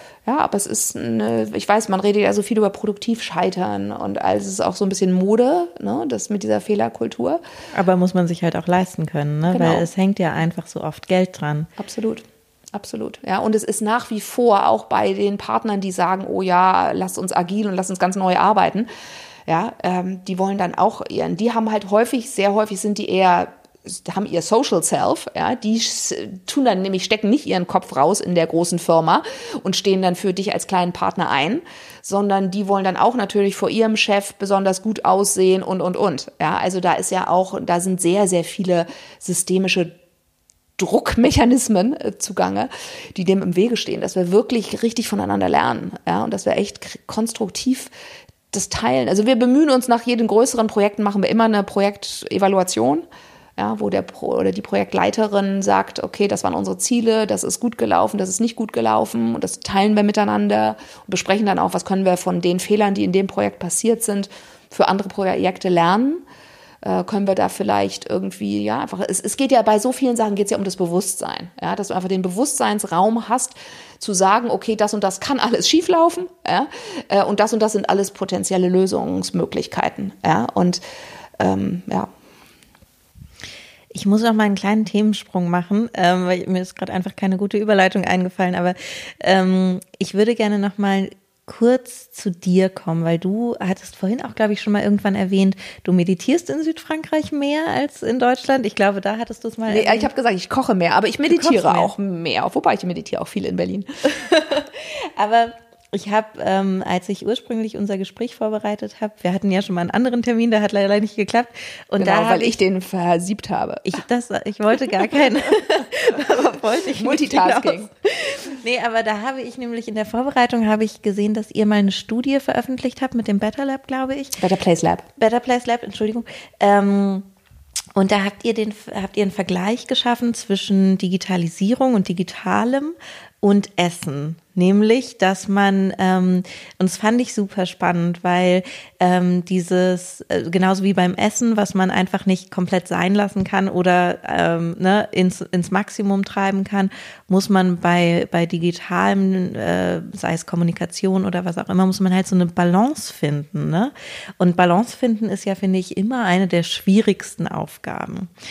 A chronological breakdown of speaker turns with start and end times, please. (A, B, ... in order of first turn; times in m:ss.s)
0:00.2-0:07.4 A
0:07.7-0:11.7 B
0:09.5-0:09.9 A
0:11.8-0:18.9 A
0:19.5-0:39.9 A
0:40.8-0:47.9 A
0:48.5-0:53.0 A
0:53.6-1:06.2 A
1:06.8-1:20.8 A
1:21.4-1:22.1 A
1:23.9-1:40.1 B
1:39.7-1:43.9 A
1:41.3-1:41.9 B
1:44.3-1:52.6 B
1:52.0-1:54.0 A
1:53.8-2:04.4 B
1:56.9-1:57.9 A
2:04.4-2:05.0 A
2:05.2-2:07.3 B
2:07.9-2:38.3 B